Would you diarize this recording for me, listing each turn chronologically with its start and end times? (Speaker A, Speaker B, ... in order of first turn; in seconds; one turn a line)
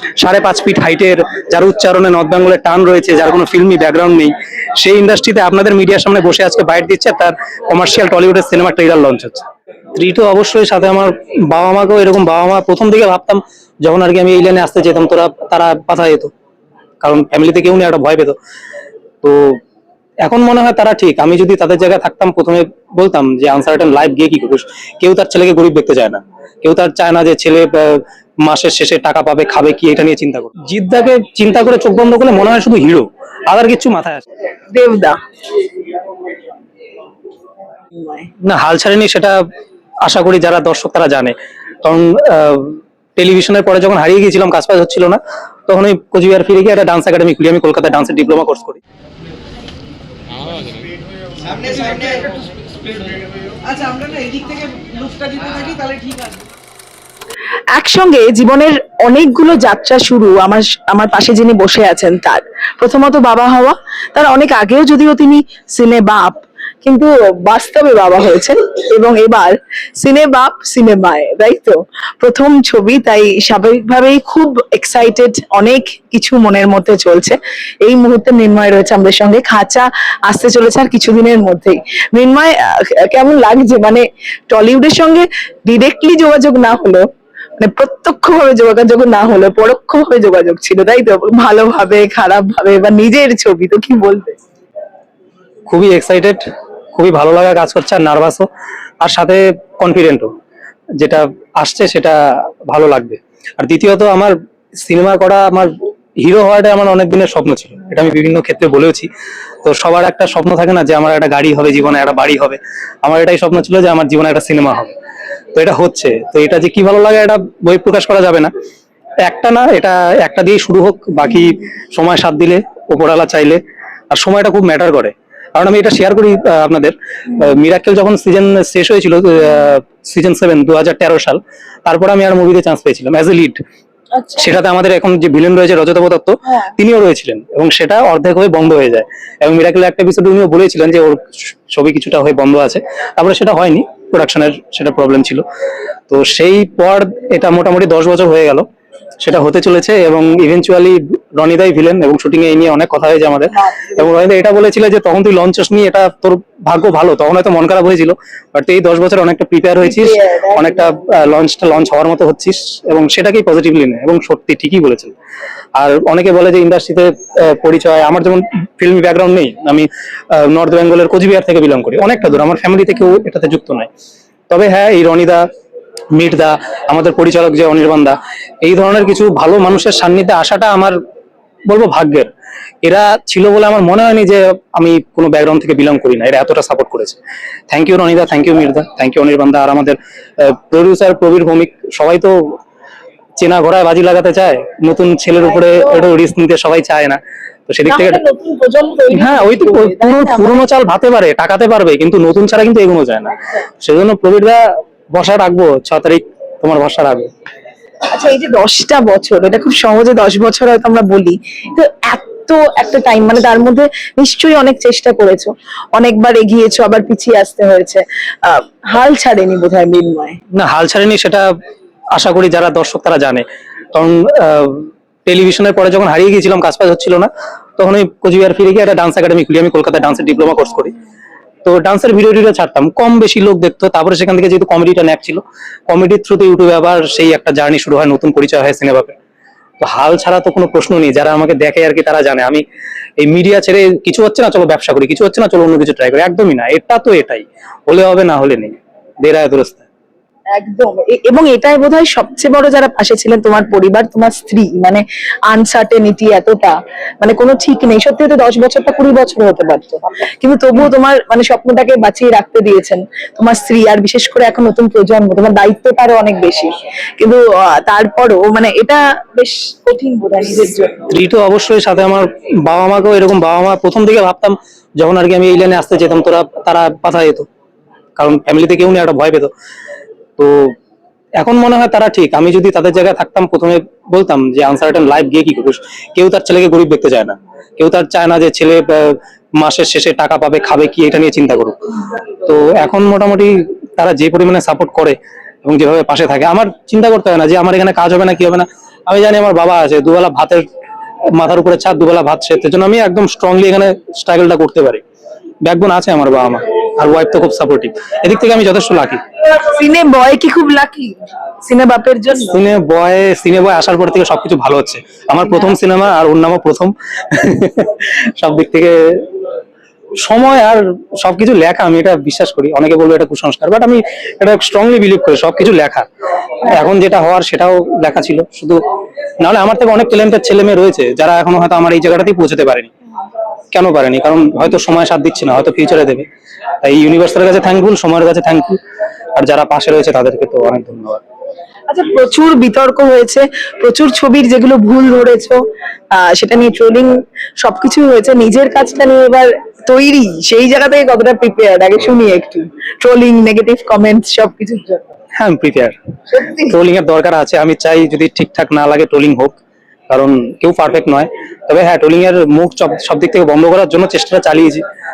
Speaker A: 0.2-16.3
Speaker A: 17.0-18.4
Speaker A: 19.2-19.6
Speaker A: 20.2-34.2
Speaker B: 34.7-35.2
Speaker B: 38.0-38.3
Speaker A: 38.4-39.4
Speaker A: 40.0-48.8
Speaker C: 51.6-52.4
Speaker C: 53.8-55.0
Speaker C: 55.5-56.4
Speaker B: 57.7-87.0
Speaker B: 87.6-94.4
Speaker A: 95.7-98.5
Speaker A: 99.0-100.3
Speaker A: 101.0-109.1
Speaker A: 109.6-114.9
Speaker A: 115.5-118.5
Speaker A: 119.2-133.6
Speaker B: 134.2-134.5
Speaker A: 134.4-145.4
Speaker A: 146.1-148.7
Speaker A: 149.2-165.2
Speaker B: 153.5-154.1
Speaker B: 159.8-160.9
Speaker A: 165.8-173.9
Speaker A: 174.5-175.4
Speaker A: 176.1-181.0
Speaker A: 181.7-182.3
Speaker A: 182.8-187.2
Speaker A: 187.7-192.6
Speaker A: 193.4-198.2
Speaker B: 195.6-196.0
Speaker B: 197.8-200.6
Speaker A: 199.1-207.3
Speaker B: 208.1-220.4
Speaker A: 220.5-221.5
Speaker A: 222.1-230.9
Speaker A: 231.6-239.2
Speaker A: 239.8-242.6
Speaker A: 243.2-249.8
Speaker B: 250.5-271.1
Speaker A: 271.1-277.5
Speaker A: 278.2-279.5
Speaker A: 280.4-280.8
Speaker A: 281.4-291.8
Speaker A: 292.4-300.6
Speaker A: 301.3-305.0
Speaker A: 305.6-309.2
Speaker B: 309.4-312.6
Speaker A: 312.5-319.2
Speaker A: 320.2-326.1
Speaker A: 326.6-328.8
Speaker A: 329.4-332.9
Speaker A: 333.7-336.3
Speaker A: 336.8-338.8
Speaker A: 339.4-341.2
Speaker B: 341.9-355.1
Speaker A: 355.4-355.9
Speaker B: 356.3-356.7
Speaker A: 356.6-359.6
Speaker A: 360.1-364.8